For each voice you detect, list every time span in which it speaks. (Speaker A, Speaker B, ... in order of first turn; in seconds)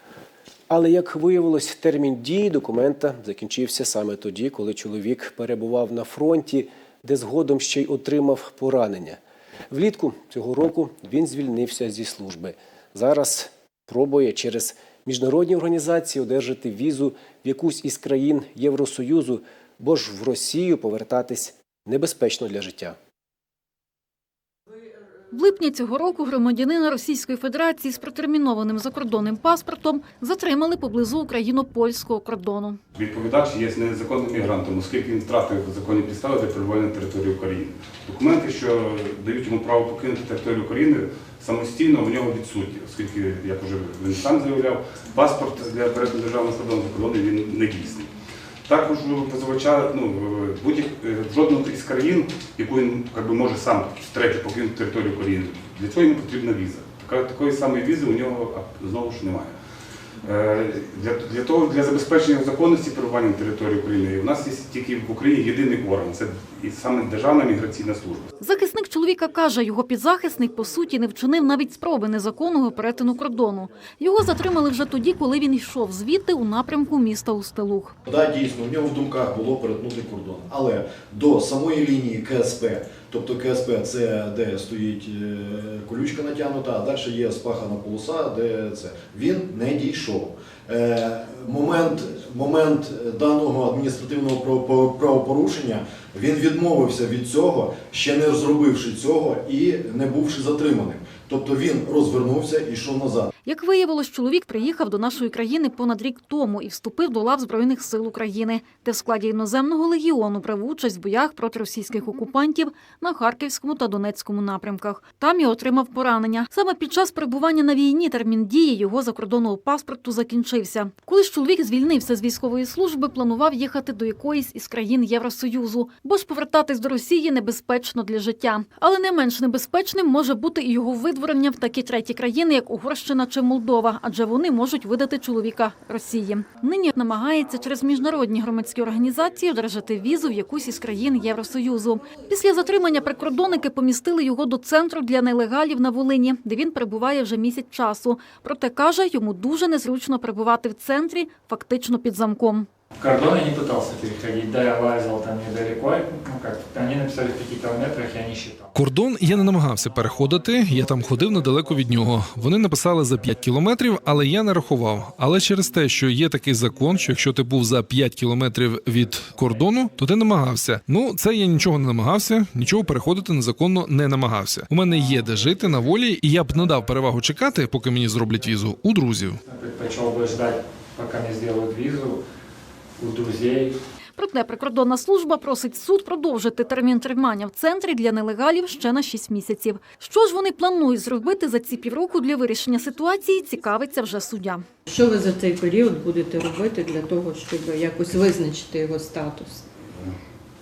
Speaker A: 0.7-9.2, 9.7-23.0
Speaker B: 25.3-32.8, 68.4-77.9, 103.5-152.7, 184.2-194.6
Speaker C: 32.9-48.1, 48.7-59.5, 60.2-68.3
Speaker D: 78.0-103.3
Speaker E: 153.0-158.7, 179.5-182.2, 183.0-183.8
Speaker F: 158.7-179.4
Speaker G: 194.9-199.6